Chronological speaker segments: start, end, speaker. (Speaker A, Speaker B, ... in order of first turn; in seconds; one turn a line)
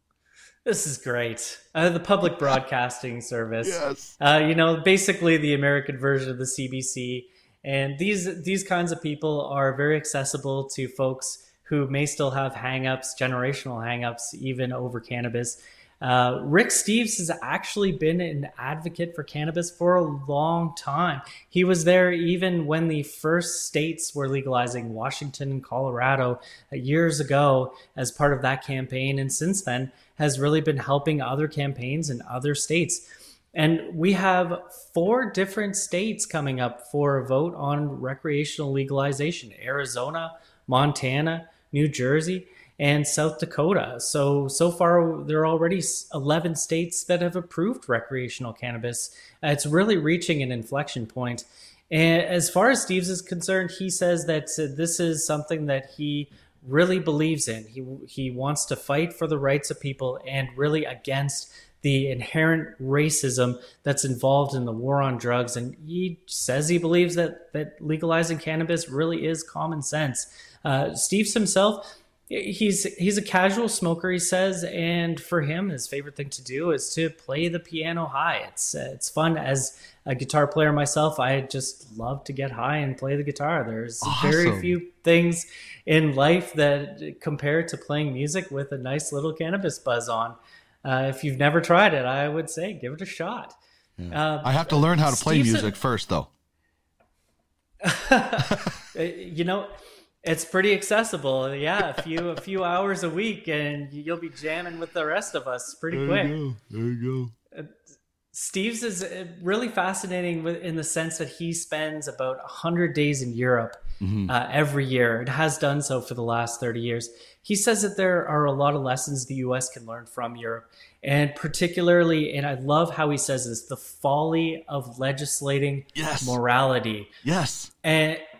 Speaker A: 0.6-93.5
Speaker B: 3.6-4.2
Speaker B: 84.0-84.8
Speaker B: 94.0-96.3
Speaker A: 94.1-95.8
Speaker A: 97.8-106.4
Speaker B: 105.9-107.3
Speaker A: 108.3-127.1
Speaker B: 114.0-114.3
Speaker B: 126.0-126.4
Speaker B: 127.2-127.7
Speaker A: 127.8-128.2